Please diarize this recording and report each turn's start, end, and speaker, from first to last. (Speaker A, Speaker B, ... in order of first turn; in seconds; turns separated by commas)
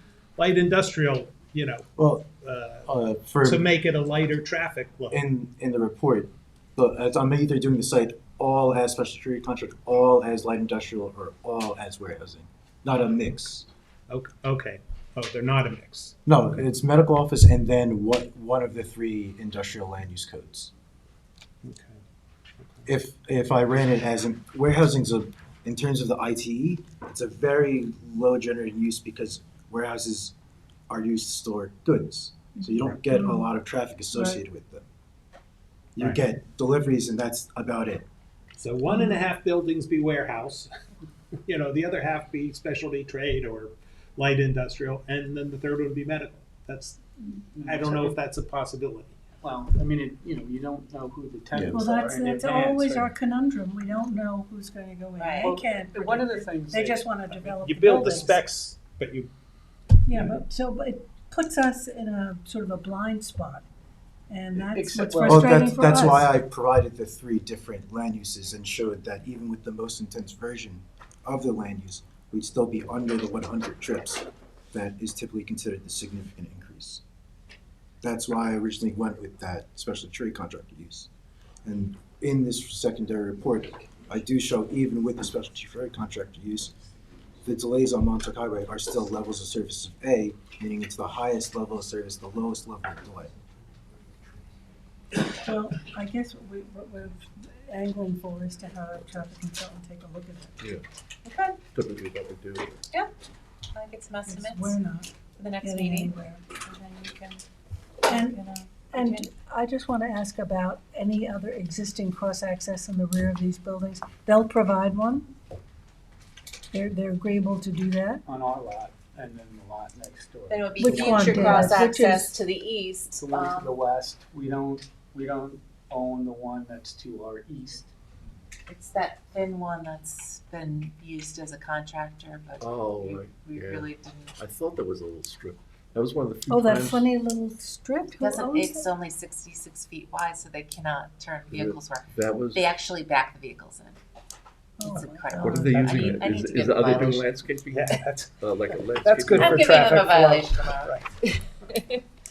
Speaker A: 0.4-1.8, Speaker B: 2.0-2.3, Speaker A: 2.4-2.9, Speaker B: 2.9-3.6, Speaker A: 3.4-5.2, Speaker B: 5.1-13.7, Speaker A: 14.1-16.6, Speaker B: 16.2-20.7, Speaker A: 21.6-22.0, Speaker A: 22.6-22.9, Speaker B: 22.9-30.3, Speaker B: 30.9-34.8, Speaker C: 33.1-33.4, Speaker B: 36.0-38.0, Speaker A: 38.6-40.7, Speaker C: 38.9-39.1, Speaker A: 41.5-47.0, Speaker D: 47.5-48.1, Speaker A: 47.6-49.2, Speaker D: 49.4-53.1, Speaker B: 51.5-51.8, Speaker C: 51.7-58.4, Speaker E: 55.2-55.5, Speaker D: 55.4-57.5, Speaker A: 57.5-59.3, Speaker C: 60.0-63.7, Speaker D: 60.1-60.4, Speaker C: 64.3-66.3, Speaker D: 64.6-65.6, Speaker B: 65.2-77.0, Speaker B: 78.0-81.1, Speaker B: 81.6-86.7, Speaker B: 87.4-93.3, Speaker C: 95.1-100.6, Speaker E: 101.2-101.6, Speaker F: 101.7-102.8, Speaker E: 103.7-104.8, Speaker C: 104.2-106.4, Speaker E: 105.4-107.4, Speaker E: 108.0-109.3, Speaker C: 108.1-115.3, Speaker C: 116.7-118.2, Speaker D: 118.2-121.8, Speaker E: 120.5-123.8, Speaker C: 120.8-122.3, Speaker D: 123.1-127.9, Speaker E: 128.7-134.3, Speaker F: 132.6-137.1, Speaker C: 136.5-138.9, Speaker E: 138.2-144.0, Speaker F: 141.5-142.8, Speaker C: 144.8-145.7, Speaker E: 144.8-147.3, Speaker A: 145.4-146.3, Speaker F: 145.4-149.8, Speaker A: 147.7-148.3, Speaker A: 149.0-151.1, Speaker E: 149.3-151.9